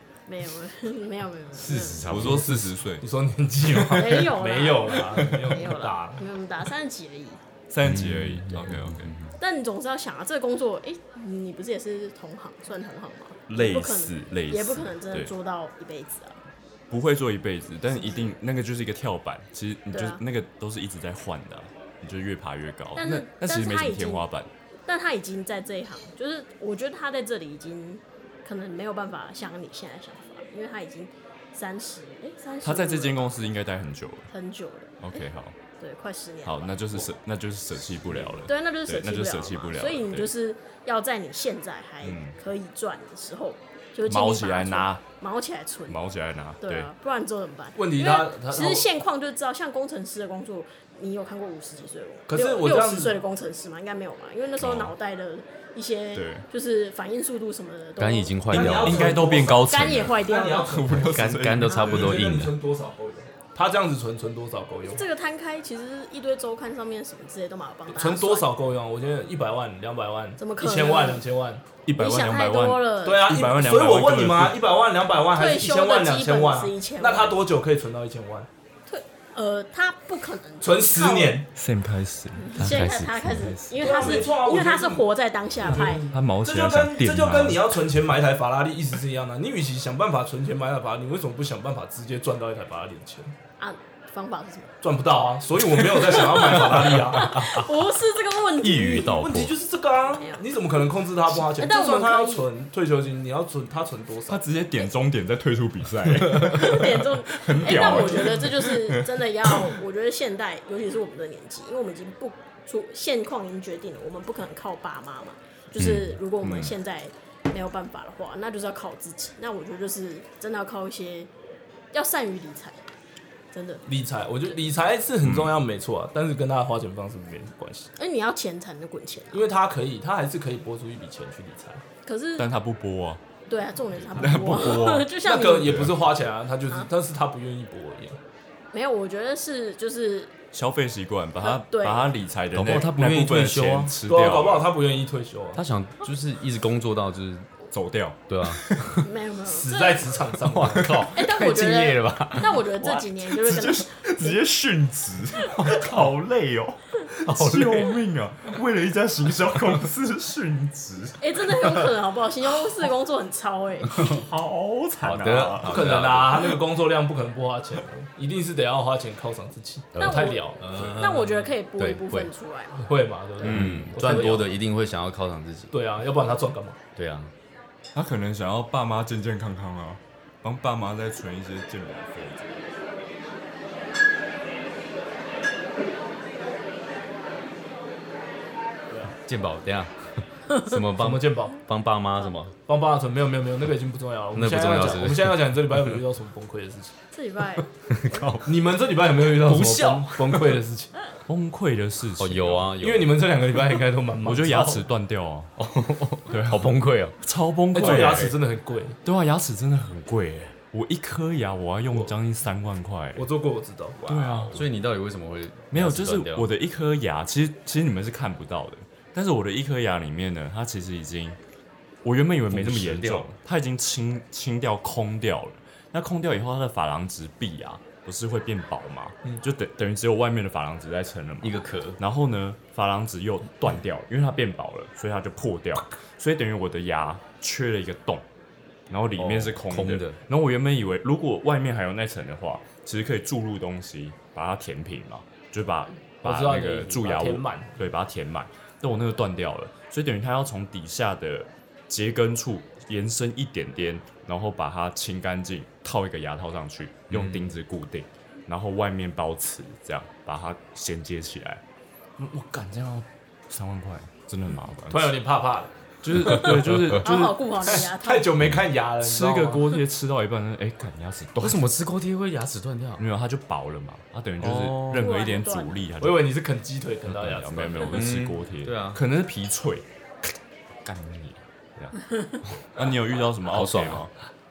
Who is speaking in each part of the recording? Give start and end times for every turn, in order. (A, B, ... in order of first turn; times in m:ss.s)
0:00.3-0:02.0 A
0:01.6-0:02.6 B
0:01.7-0:03.1 C
0:02.0-0:06.2 D
0:03.7-0:04.0 C
0:03.9-0:07.4 A
0:07.7-0:09.2 C
0:07.8-0:09.3 B
0:09.4-0:16.4 A
0:13.5-0:15.3 C
0:16.9-0:24.5 C
0:18.0-0:18.3 A
0:19.9-0:20.2 A
0:23.0-0:24.3 A
0:24.9-0:33.4 A
0:32.6-0:34.3 C
0:34.3-0:35.2 A
0:35.0-0:35.6 C
0:35.8-0:36.8 A
0:36.4-0:40.3 C
0:38.1-0:38.5 D
0:38.5-0:46.0 A
0:42.0-0:42.4 C
0:44.0-0:45.0 C
0:45.9-0:46.9 C
0:46.6-1:01.0 A
0:47.8-0:48.9 D
0:52.3-0:53.2 D
0:54.6-0:54.9 C
0:56.1-0:56.4 C
0:58.0-0:59.4 B
0:58.5-1:05.0 D
0:58.5-1:02.3 C
1:00.9-1:02.6 B
1:01.7-1:02.1 A
1:04.9-1:08.5 A
1:07.9-1:11.6 D
1:10.4-1:11.2 A
1:11.9-1:14.6 C
1:12.0-1:13.4 A
1:13.0-1:18.5 D
1:15.4-1:17.4 A
1:18.9-1:21.4 A
1:20.6-1:21.5 D
1:21.5-1:24.3 C
1:22.4-1:26.1 A
1:23.8-1:25.0 D
1:25.6-1:33.3 D
1:25.7-1:27.6 C
1:33.6-1:34.8 A
1:34.8-1:37.6 D
1:35.7-1:39.2 A
1:37.3-1:37.7 B
1:38.6-1:39.6 B
1:39.1-1:44.4 D
1:40.2-1:40.4 A
1:41.3-1:42.5 A
1:44.3-1:49.8 C
1:46.5-2:01.3 A
1:47.7-1:48.2 D
1:55.8-1:56.2 B
1:56.4-1:56.7 C
2:01.9-2:02.8 A
2:03.5-2:03.8 A
2:03.9-2:07.9 D
2:05.2-2:05.6 C
2:08.0-2:09.5 A
2:09.3-2:11.8 D
2:12.0-2:12.5 A
2:12.4-2:13.2 C
2:13.5-2:16.0 A
2:14.1-2:15.1 C
2:15.2-2:18.2 D
2:15.6-2:16.0 C
2:18.7-2:20.3 A
2:20.5-2:24.7 C
2:21.4-2:22.1 A
2:22.5-2:24.0 B
2:24.1-2:25.6 D
2:25.6-2:27.5 B
2:27.7-2:29.0 C
2:28.3-2:29.0 B
2:29.0-2:30.1 A
2:29.4-2:31.1 D
2:30.4-2:32.7 B
2:31.1-2:34.4 A
2:32.8-2:41.9 C
2:35.6-2:36.1 B
2:37.2-2:38.0 B
2:41.2-2:44.1 A
2:43.9-2:46.1 C
2:45.0-2:46.6 B
2:45.6-2:51.0 D
2:49.9-2:52.3 B
2:50.0-2:52.8 A
2:52.7-2:54.6 D
2:53.4-2:55.8 B
2:53.4-2:54.0 C
2:55.7-2:56.8 D
2:57.0-2:57.3 B
2:57.9-3:02.6 C
3:09.1-3:12.5 B
3:10.9-3:11.6 D
3:12.7-3:17.0 D
3:14.3-3:16.0 B
3:17.1-3:18.3 A
3:17.9-3:18.6 B
3:18.4-3:20.9 D
3:19.2-3:20.6 B
3:21.3-3:22.7 C
3:22.2-3:23.3 B
3:22.8-3:24.8 D
3:24.2-3:25.5 C
3:25.6-3:27.2 B
3:26.3-3:28.4 C
3:27.7-3:29.0 D
3:27.8-3:28.2 B
3:29.0-3:33.3 C
3:33.2-3:34.6 D
3:34.0-3:34.7 C
3:34.5-3:36.5 B
3:35.7-3:41.4 C
3:42.0-3:58.3 C
3:42.5-3:43.3 B
3:51.4-3:52.0 B
3:58.9-4:21.6 C
3:59.2-4:00.2 B
4:06.2-4:07.8 D
4:17.1-4:17.5 B
4:22.2-4:25.2 C
4:24.9-4:26.8 D
4:26.0-4:27.8 C
4:26.4-4:26.9 B
4:26.9-4:28.3 A
4:27.6-4:29.8 D
4:29.0-4:31.7 C
4:31.4-4:33.0 B
4:33.0-4:36.3 C
4:34.4-4:35.1 B
4:34.9-4:35.9 A
4:36.0-4:38.1 D
4:37.0-4:39.9 C
4:37.8-4:39.0 B
4:40.8-4:41.9 C
4:41.9-4:42.4 A
4:42.6-4:44.1 C
4:43.5-4:44.0 B